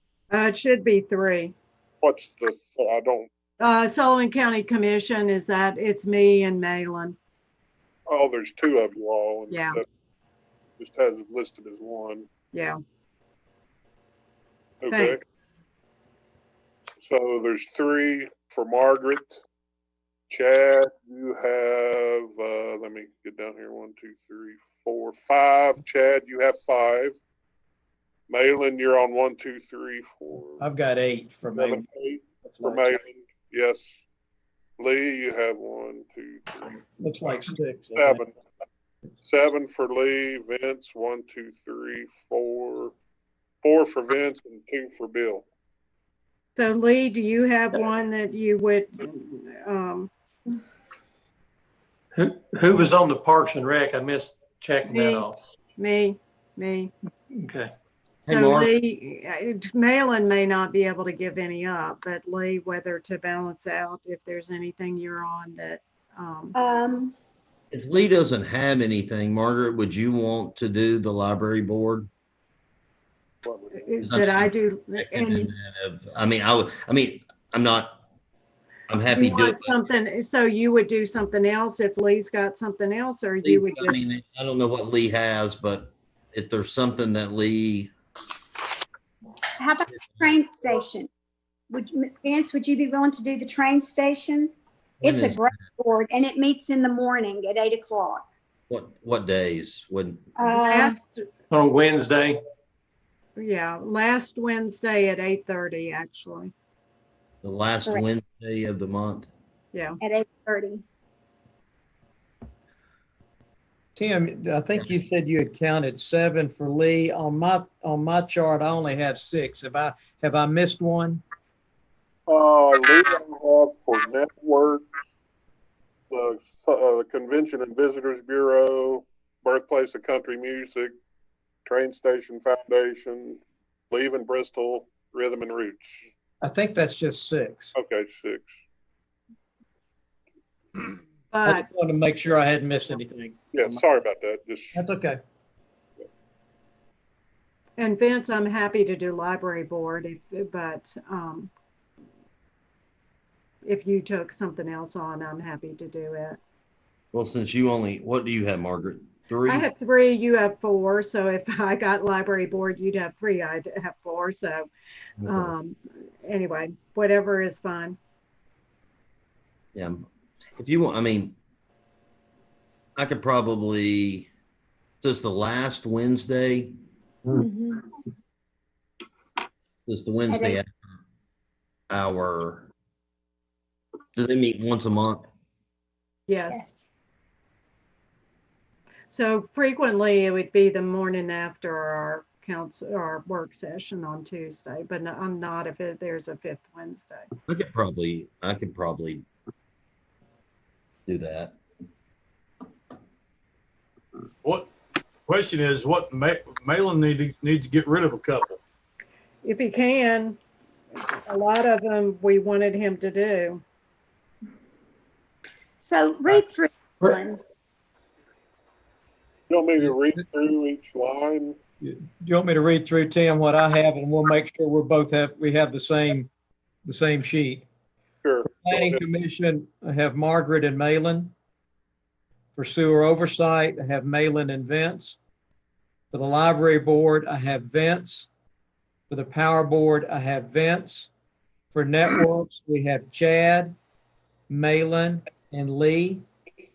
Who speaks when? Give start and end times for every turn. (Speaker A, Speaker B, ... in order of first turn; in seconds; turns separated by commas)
Speaker A: 0.3-1.5, Speaker B: 2.0-3.3, Speaker A: 3.6-7.2, Speaker B: 8.1-9.8, Speaker A: 9.5-9.8, Speaker B: 10.8-12.3, Speaker A: 12.5-12.8, Speaker B: 14.8-15.2, Speaker A: 14.9-15.2, Speaker B: 17.0-19.4, Speaker B: 20.3-27.1, Speaker B: 28.3-30.6, Speaker C: 30.6-31.8, Speaker B: 31.5-33.9, Speaker C: 32.4-32.9, Speaker B: 34.8-38.3, Speaker C: 37.0-38.2, Speaker B: 39.2-42.9, Speaker B: 43.6-45.5, Speaker A: 46.5-50.1, Speaker D: 52.2-55.4, Speaker A: 54.9-56.9, Speaker D: 57.4-57.7, Speaker E: 58.2-58.8, Speaker A: 58.2-66.5, Speaker F: 66.5-67.1, Speaker E: 67.7-72.1, Speaker B: 73.4-73.8, Speaker A: 73.7-75.5, Speaker E: 74.0-78.0, Speaker E: 78.9-79.9, Speaker A: 79.1-84.0, Speaker E: 83.4-87.9, Speaker F: 89.6-91.1, Speaker F: 91.7-98.2, Speaker E: 95.0-95.5, Speaker E: 98.7-100.2, Speaker A: 100.4-101.3, Speaker F: 100.5-100.8, Speaker D: 101.5-102.4, Speaker A: 103.4-106.5, Speaker E: 107.4-109.3, Speaker A: 109.7-110.0, Speaker F: 110.0-110.8, Speaker C: 114.0-121.2, Speaker B: 122.3-124.8, Speaker B: 126.1-130.9, Speaker B: 131.6-136.1, Speaker C: 136.4-137.7, Speaker B: 137.7-138.5, Speaker A: 141.3-141.7, Speaker C: 141.4-143.4, Speaker B: 143.5-144.8, Speaker C: 144.7-145.2, Speaker A: 147.8-151.5, Speaker A: 153.6-156.4, Speaker E: 157.1-159.7, Speaker A: 159.5-164.7, Speaker E: 165.2-165.5, Speaker A: 165.2-168.0, Speaker E: 169.7-170.0, Speaker E: 170.6-171.4, Speaker E: 172.9-174.3, Speaker E: 175.0-176.7, Speaker F: 177.4-177.7, Speaker E: 179.9-180.7, Speaker E: 181.9-182.7, Speaker E: 184.2-185.2, Speaker A: 186.3-186.6, Speaker A: 189.1-197.3, Speaker E: 197.5-199.2, Speaker E: 201.1-201.6, Speaker G: 204.4-204.7, Speaker G: 205.3-208.6, Speaker A: 209.4-210.4, Speaker A: 211.0-213.6, Speaker F: 215.8-217.4, Speaker B: 219.5-221.6, Speaker C: 221.8-226.3, Speaker C: 226.8-227.6, Speaker B: 228.2-229.0, Speaker C: 228.4-231.3, Speaker C: 232.6-235.2, Speaker C: 236.1-238.3, Speaker C: 239.1-241.1, Speaker C: 241.7-243.7, Speaker C: 244.5-246.2